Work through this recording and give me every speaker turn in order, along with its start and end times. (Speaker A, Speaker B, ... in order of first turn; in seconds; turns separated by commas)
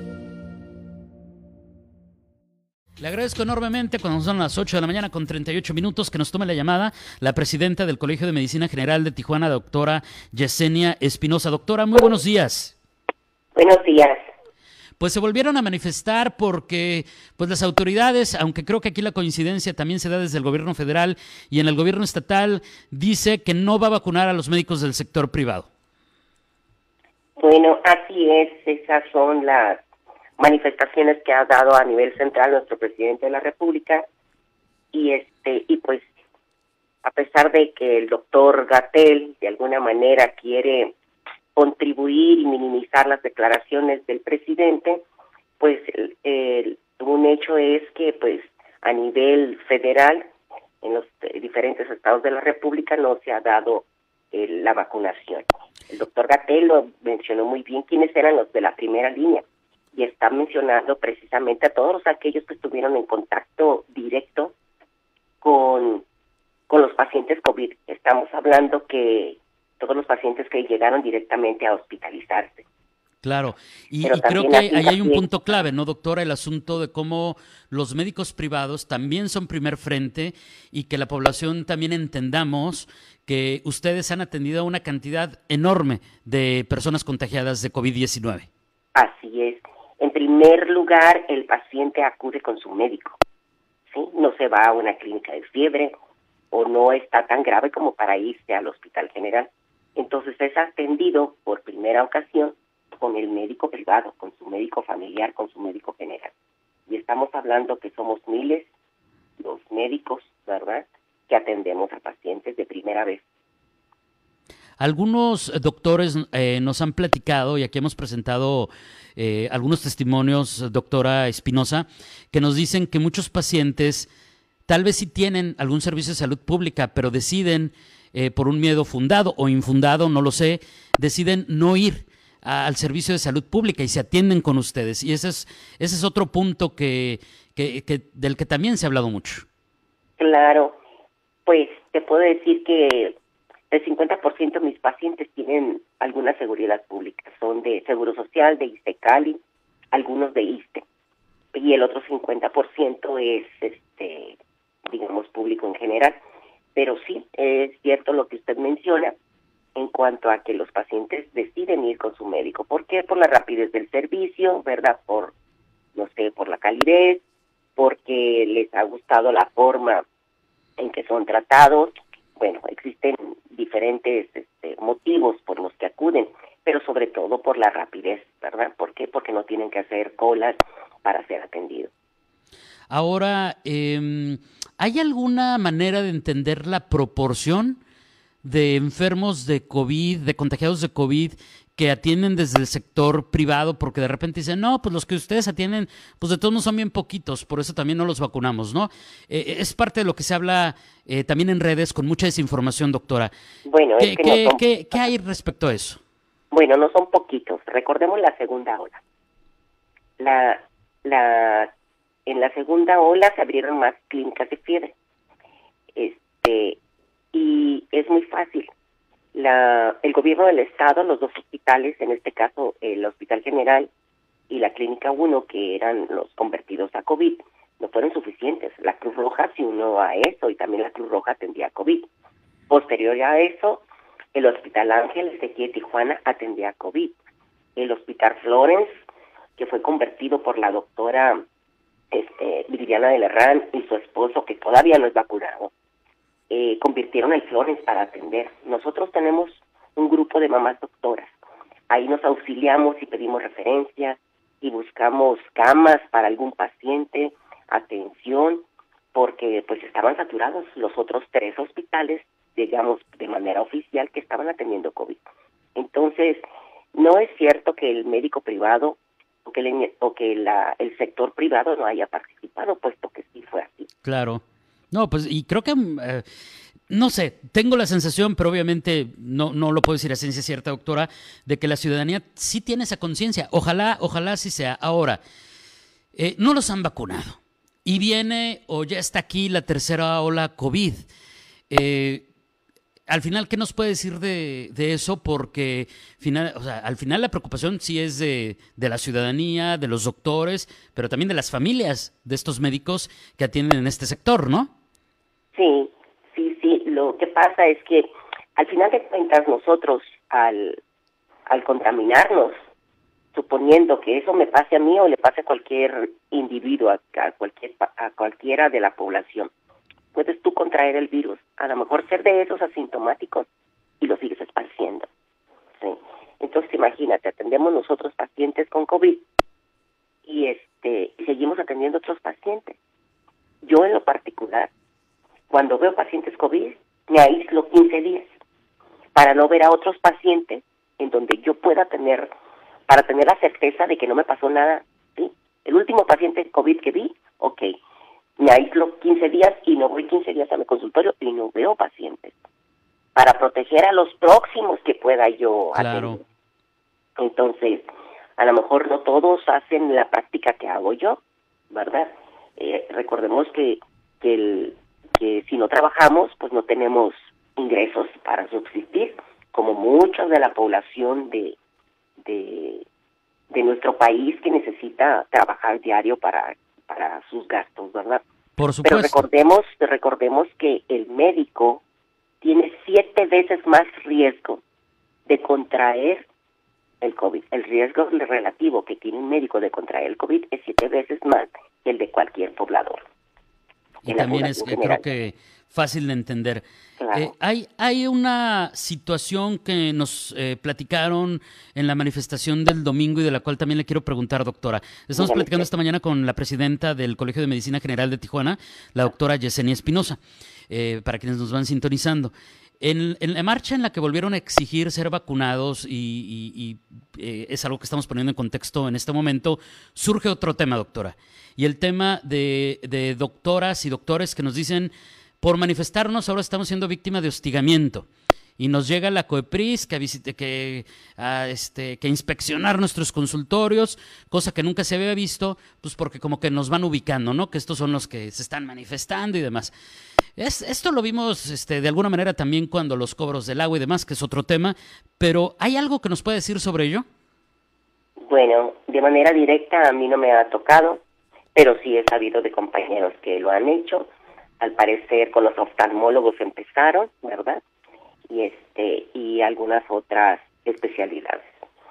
Speaker A: 3.0-12.8, Speaker B: 13.6-14.2, Speaker A: 15.0-25.7, Speaker B: 27.4-29.8, Speaker B: 30.4-34.0, Speaker B: 34.9-36.1, Speaker B: 37.0-40.9, Speaker B: 41.6-45.0, Speaker B: 45.6-50.3, Speaker B: 50.8-64.5, Speaker B: 65.4-66.0, Speaker B: 66.7-72.7, Speaker A: 73.2-88.5, Speaker B: 74.0-75.3, Speaker B: 89.0-93.2, Speaker B: 93.9-96.0, Speaker B: 96.5-106.3, Speaker B: 106.9-108.7, Speaker B: 109.4-113.2, Speaker A: 114.8-124.1, Speaker A: 124.7-139.4, Speaker B: 140.2-140.8, Speaker B: 141.5-143.2, Speaker B: 143.7-149.4, Speaker B: 149.9-150.8, Speaker B: 151.5-156.2, Speaker B: 156.8-159.2, Speaker B: 159.8-165.3, Speaker B: 165.9-167.2, Speaker B: 167.8-170.0, Speaker B: 170.8-181.9, Speaker A: 182.9-187.8, Speaker A: 188.4-203.3, Speaker B: 203.7-205.1, Speaker A: 204.0-206.0, Speaker B: 206.5-209.0, Speaker B: 210.2-211.7, Speaker B: 212.3-214.9, Speaker B: 215.9-216.8, Speaker B: 217.3-218.7, Speaker B: 219.3-223.9, Speaker B: 224.5-232.1, Speaker B: 232.7-233.8, Speaker B: 234.3-237.2, Speaker B: 237.8-239.0, Speaker B: 239.6-241.4, Speaker B: 242.1-245.7, Speaker B: 246.5-251.3, Speaker B: 251.9-265.2, Speaker B: 265.8-273.9, Speaker A: 274.0-276.2, Speaker A: 276.9-285.2, Speaker A: 286.2-291.1, Speaker A: 291.7-292.2, Speaker A: 293.1-304.7, Speaker B: 305.6-310.8, Speaker B: 311.5-312.6, Speaker B: 313.3-319.5, Speaker B: 320.1-323.5, Speaker B: 324.0-325.1, Speaker B: 325.8-329.2, Speaker B: 330.2-332.8, Speaker B: 333.6-334.7, Speaker B: 335.5-338.3, Speaker B: 339.1-342.3, Speaker B: 342.9-347.7, Speaker B: 348.4-352.4, Speaker B: 353.1-356.2, Speaker A: 355.8-356.2, Speaker B: 357.2-371.6, Speaker B: 372.2-372.9, Speaker B: 373.5-378.2, Speaker A: 378.6-379.2, Speaker B: 378.8-381.8, Speaker B: 382.4-384.6, Speaker B: 385.3-386.3, Speaker B: 387.0-393.0, Speaker A: 394.0-410.2, Speaker B: 394.1-395.0, Speaker B: 397.0-397.3, Speaker B: 405.1-405.7, Speaker A: 410.7-428.1, Speaker A: 428.6-439.7, Speaker A: 440.4-447.1, Speaker B: 448.3-451.0, Speaker B: 451.6-454.1, Speaker B: 454.6-457.6, Speaker B: 458.3-461.5